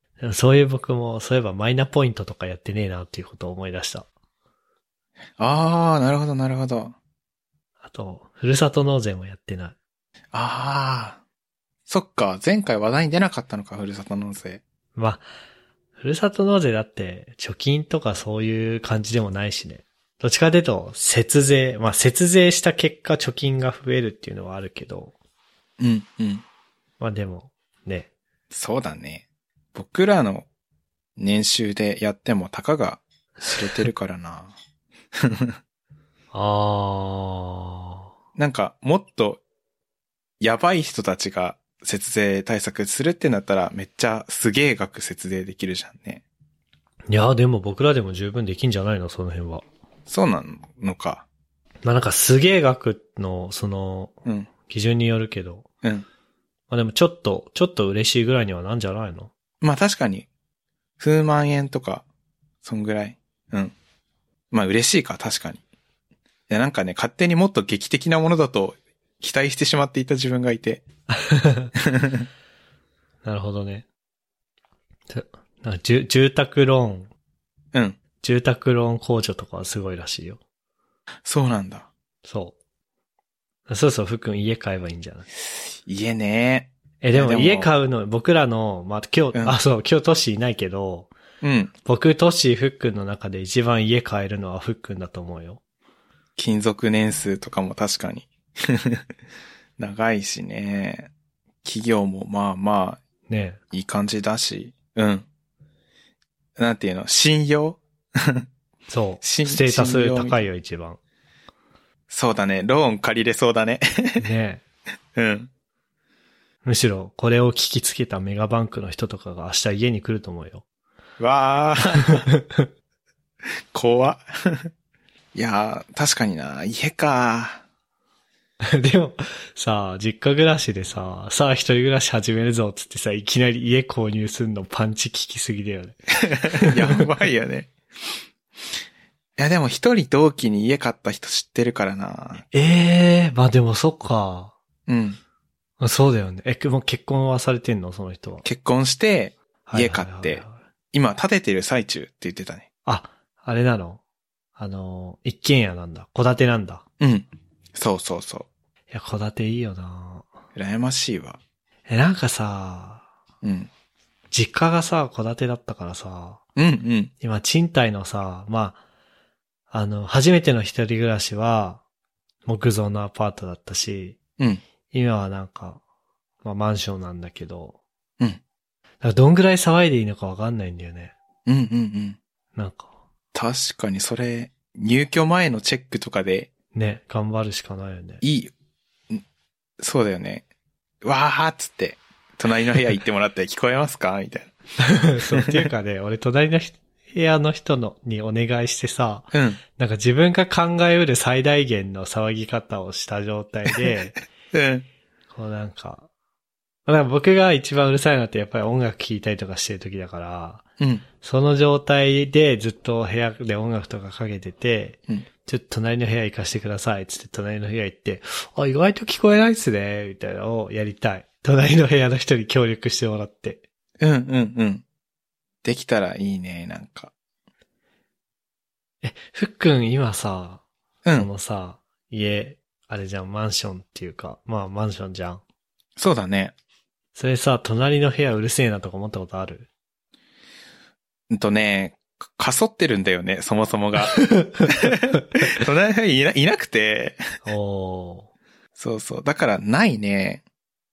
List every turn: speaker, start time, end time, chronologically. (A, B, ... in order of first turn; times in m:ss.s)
0:00.2-0:04.0 A
0:05.4-0:06.9 B
0:07.8-0:09.7 A
0:10.3-0:11.2 B
0:11.9-0:14.6 B
0:14.9-0:15.2 A
0:16.0-0:25.1 A
0:25.8-0:26.4 B
0:27.0-0:28.1 A
0:28.5-0:30.4 B
0:31.2-0:34.5 B
0:35.2-0:35.5 B
0:36.3-0:38.0 A
0:38.4-0:39.4 B
0:40.4-0:46.2 B
0:47.1-0:49.6 A
0:50.1-0:51.2 B
0:51.8-0:55.7 A
0:56.7-0:59.3 A
0:59.6-1:00.3 B
1:01.0-1:02.0 B
1:02.6-1:03.7 B
1:04.5-1:05.6 B
1:06.5-1:10.8 B
1:11.2-1:11.7 A
1:11.8-1:12.2 B
1:13.2-1:13.8 A
1:15.1-1:17.1 A
1:18.2-1:20.4 A
1:21.2-1:21.9 B
1:22.2-1:22.5 A
1:23.7-1:25.3 A
1:25.8-1:27.7 B
1:27.0-1:31.1 A
1:31.4-1:31.7 B
1:31.8-1:35.6 A
1:36.4-1:39.0 B
1:39.8-1:41.1 B
1:41.6-1:43.0 B
1:43.3-1:43.6 A
1:43.7-1:45.2 B
1:46.6-1:48.4 B
1:48.9-1:51.0 A
1:49.2-1:50.4 B
1:52.1-1:54.2 B
1:54.2-1:54.6 A
1:55.2-1:55.5 B
1:56.6-2:00.6 A
2:01.2-2:02.3 B
2:02.3-2:02.7 A
2:03.7-2:04.7 B
2:05.3-2:07.6 B
2:08.7-2:17.0 A
2:16.2-2:17.7 B
2:19.4-2:22.4 B
2:22.5-2:24.5 A
2:24.9-2:25.2 B
2:25.8-2:28.4 A
2:28.4-2:32.6 B
2:29.6-2:30.5 A
2:32.8-2:34.0 A
2:34.6-2:36.8 A
2:37.0-2:38.5 B
2:38.9-2:40.3 A
2:40.5-2:41.4 B
2:41.9-2:43.0 A
2:43.4-2:43.7 B
2:44.3-2:46.4 A
2:46.6-2:47.1 B
2:47.2-2:48.8 A
2:49.7-2:51.8 A
2:52.4-2:54.2 A
2:54.9-2:55.8 A
2:56.4-2:57.8 A
2:59.0-3:01.1 A
3:01.4-3:02.2 B
3:02.5-3:02.9 A
3:03.3-3:06.5 B
3:06.7-3:08.2 A
3:08.2-3:08.5 B
3:09.8-3:10.4 B
3:11.0-3:14.5 B
3:14.8-3:24.2 A
3:15.2-3:15.7 B
3:19.3-3:19.6 B
3:24.5-3:24.8 B
3:25.3-3:26.1 A
3:26.8-3:30.6 A
3:30.8-3:31.0 B
3:31.2-3:43.6 A
3:44.0-3:44.8 B
3:45.6-3:47.1 B
3:49.0-3:50.6 A
3:51.2-3:55.4 A
3:56.0-3:56.5 B
3:57.1-3:59.7 A
4:01.3-4:07.2 B
4:04.2-4:04.7 A
4:07.4-4:08.3 A
4:08.8-4:10.4 B